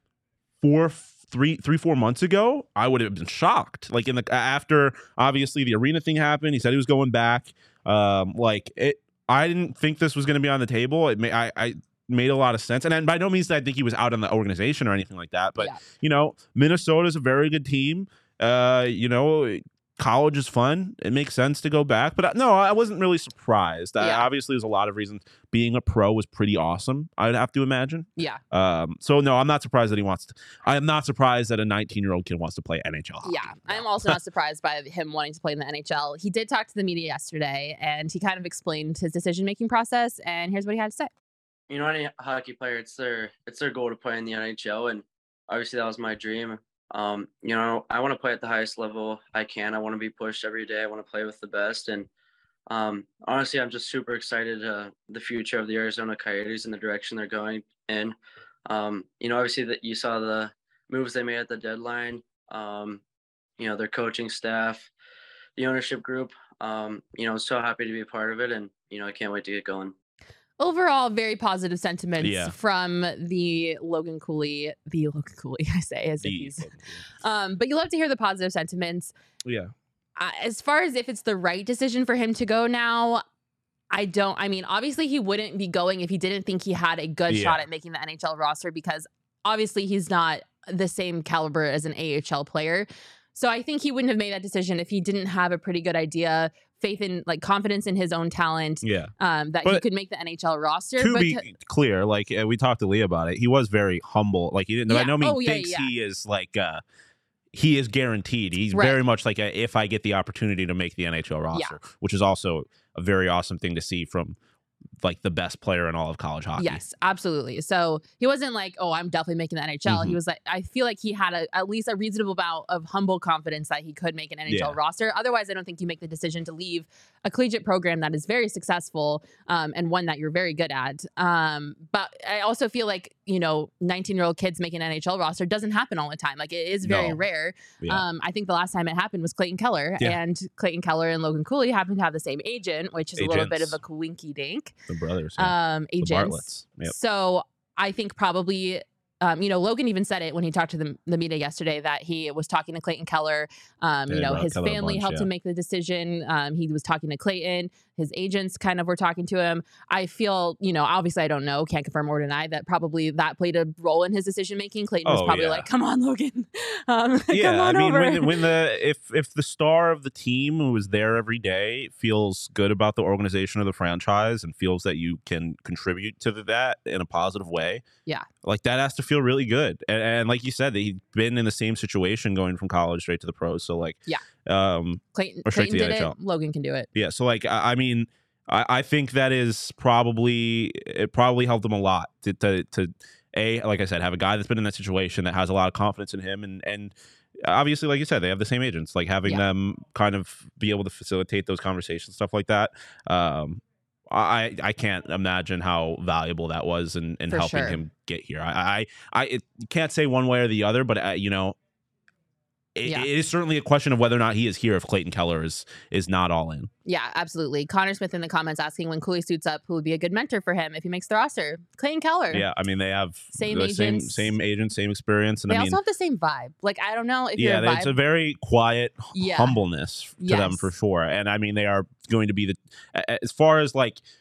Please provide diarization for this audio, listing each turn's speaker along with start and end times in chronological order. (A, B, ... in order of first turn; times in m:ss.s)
0:00.6-0:34.2 A
0:24.0-0:24.3 B
0:33.2-0:41.1 B
0:41.7-0:52.1 C
0:52.7-1:03.0 C
1:03.6-1:04.9 C
1:05.6-1:09.9 C
1:10.6-1:19.1 B
1:12.2-1:12.5 A
1:16.2-1:17.0 A
1:19.4-1:19.7 A
1:20.2-1:23.2 B
1:23.9-1:41.4 B
1:27.3-1:27.6 A
1:38.8-1:39.1 A
1:41.0-1:46.8 A
1:44.9-1:45.9 B
1:47.5-1:54.4 A
1:48.7-1:49.0 B
1:55.0-1:56.8 A
1:56.6-2:24.7 B
1:59.8-2:00.2 A
2:04.5-2:04.8 A
2:16.8-2:17.2 A
2:23.2-2:23.8 A
2:24.9-2:26.9 A
2:25.4-2:48.4 B
2:34.1-2:35.3 A
2:45.0-2:45.7 A
2:47.3-2:57.8 A
2:58.4-3:06.1 A
3:05.1-3:06.9 B
3:06.9-3:31.5 A
3:27.3-3:27.8 B
3:32.8-3:36.7 A
3:36.8-3:42.4 B
3:42.3-3:45.8 A
3:43.3-3:44.3 B
3:45.5-3:48.0 B
3:47.4-3:54.0 A
3:49.1-3:49.6 B
3:50.2-3:50.7 B